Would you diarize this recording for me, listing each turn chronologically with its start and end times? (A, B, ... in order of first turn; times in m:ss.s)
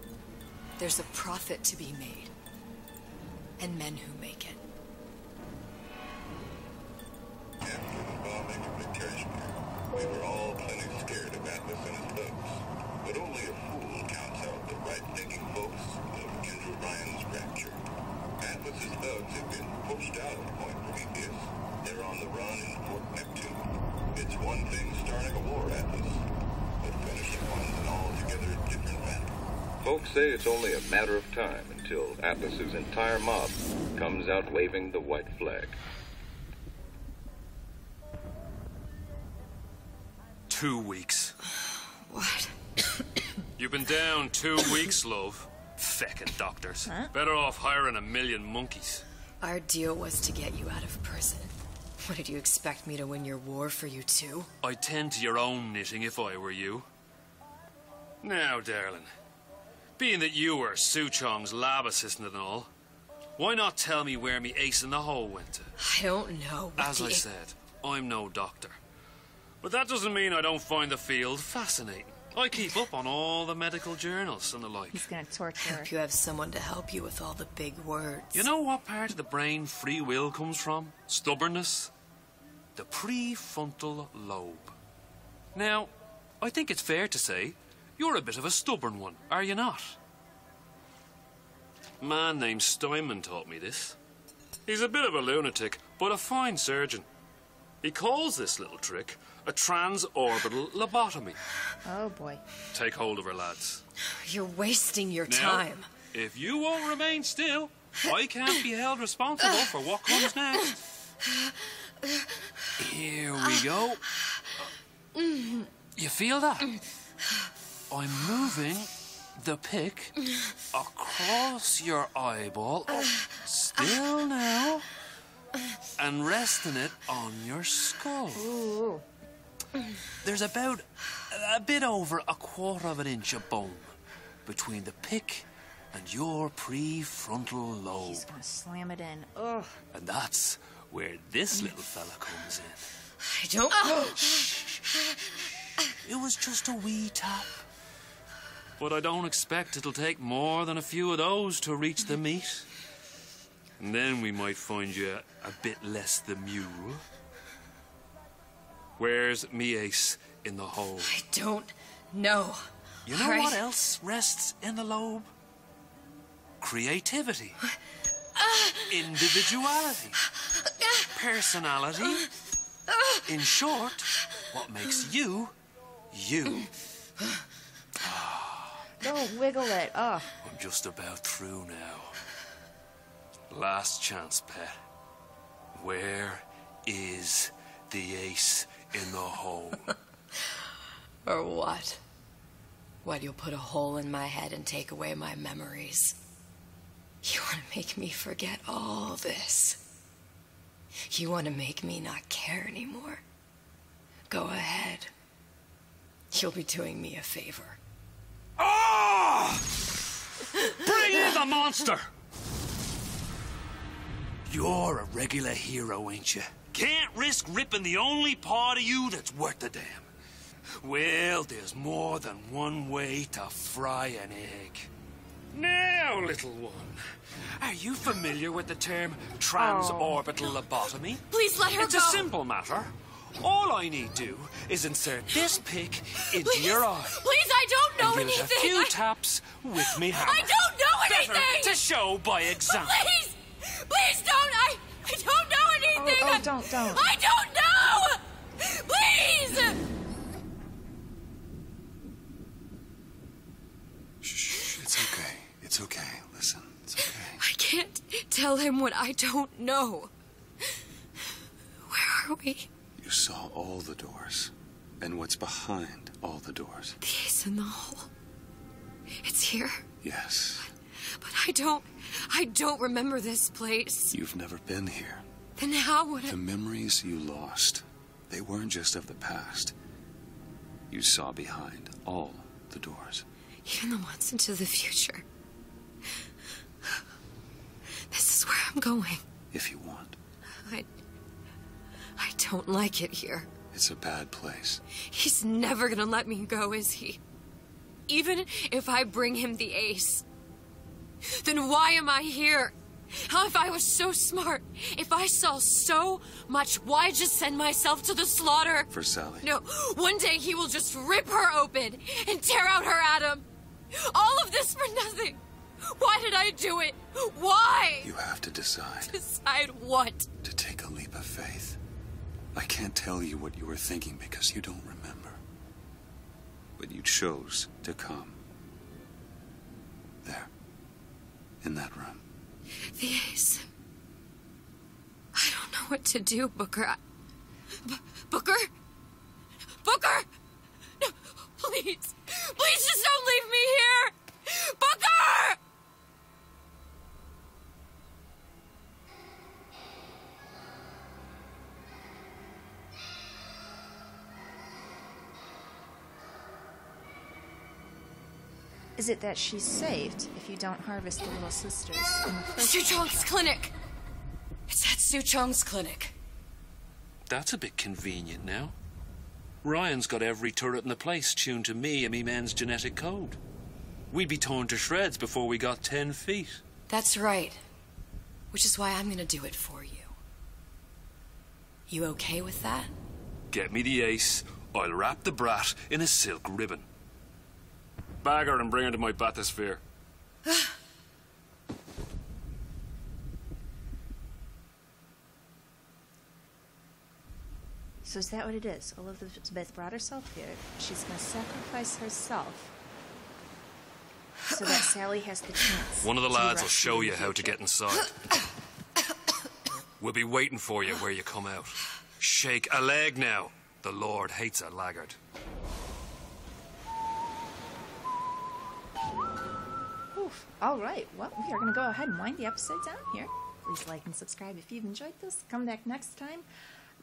0:00.8-0:02.3 A
0:03.6-0:04.6 A
0:07.6-0:17.8 B
0:18.4-0:26.2 B
0:26.8-0:29.3 B
0:29.8-0:35.8 C
0:40.5-0:41.3 D
0:42.1-0:42.5 A
0:43.6-0:49.0 D
0:46.8-0:47.1 E
0:49.4-0:54.5 A
0:54.6-0:56.8 D
0:58.2-0:59.1 D
1:00.0-1:02.7 D
1:03.4-1:05.7 D
1:05.8-1:07.3 A
1:06.8-1:08.8 D
1:09.6-1:15.0 D
1:14.9-1:15.9 E
1:15.6-1:18.5 A
1:18.3-1:21.9 D
1:22.7-1:24.7 D
1:25.5-1:30.0 D
1:32.0-1:34.0 D
1:34.7-1:37.0 D
1:37.8-1:41.4 D
1:41.8-1:42.4 E
1:42.7-1:43.8 D
1:44.0-1:45.9 A
1:45.3-1:50.8 D
1:50.1-1:50.7 A
1:52.8-1:54.0 D
1:55.2-1:55.7 A
1:56.0-1:56.7 D
1:57.9-2:00.2 D
2:00.7-2:04.9 D
2:06.0-2:08.5 D
2:08.3-2:09.0 E
2:10.2-2:13.9 D
2:14.4-2:18.3 D
2:18.0-2:19.8 E
2:19.9-2:22.8 D
2:23.2-2:24.6 A
2:26.0-2:27.6 D
2:28.8-2:32.7 D
2:33.8-2:37.0 D
2:39.0-2:41.2 D
2:41.0-2:43.6 A
2:43.1-2:45.3 D
2:46.6-2:47.6 D
2:48.4-2:48.8 A
2:48.9-2:50.2 D
2:51.1-2:52.2 D
2:53.2-2:55.5 D
2:56.1-2:56.7 D
2:58.0-2:58.9 D
2:59.0-3:00.3 E
3:00.4-3:02.2 D
3:03.5-3:04.7 D
3:05.7-3:09.9 D
3:11.2-3:12.0 A
3:13.0-3:16.2 A
3:17.2-3:19.8 A
3:21.1-3:23.2 A
3:24.3-3:25.1 A
3:26.3-3:27.8 A
3:28.6-3:29.6 D
3:30.7-3:32.1 D
3:34.4-3:40.0 D
3:40.8-3:44.9 D
3:45.5-3:47.0 D
3:47.6-3:57.2 D
3:49.6-3:50.2 E
3:51.3-3:52.3 A
3:56.3-3:59.0 A
3:58.0-4:03.0 D
3:59.8-4:01.8 A
4:02.4-4:09.8 A
4:05.9-4:07.1 E
4:14.2-4:17.4 F
4:17.4-4:20.1 A
4:21.9-4:22.7 A
4:23.0-4:27.0 F
4:27.0-4:28.1 A
4:29.2-4:29.8 A
4:30.0-4:30.7 F
4:31.1-4:34.1 A
4:34.1-4:35.2 F
4:35.6-4:36.4 A
4:36.2-4:39.7 F
4:40.9-4:43.2 F
4:43.6-4:45.2 A
4:48.1-4:49.2 A
4:49.5-4:50.2 F
4:50.6-4:50.9 A
4:52.2-4:53.5 A
4:53.7-4:54.8 F
4:55.1-4:57.2 A
4:58.1-5:00.2 A
5:01.4-5:08.9 A
5:08.9-5:09.5 F
5:09.4-5:18.1 A
5:18.0-5:19.1 F
5:19.1-5:20.3 A
5:20.4-5:21.8 F
5:22.5-5:25.4 F
5:26.8-5:28.4 F
5:30.2-5:30.5 F
5:31.6-5:32.2 F
5:32.9-5:33.7 A
5:35.3-5:37.0 A
5:37.8-5:38.7 A
5:39.8-5:40.3 A
5:41.0-5:45.6 A
5:59.0-6:03.3 E
6:02.6-6:03.7 A
6:04.7-6:06.1 A
6:07.3-6:08.7 D
6:09.6-6:13.4 D
6:14.1-6:16.6 D
6:16.9-6:17.6 A
6:18.5-6:20.1 A
6:21.9-6:22.9 A
6:23.5-6:26.8 D
6:28.2-6:29.8 D
6:38.0-6:42.7 E
6:44.5-6:47.6 E
6:46.0-6:48.2 D
6:50.0-6:55.2 D
7:00.1-7:06.4 E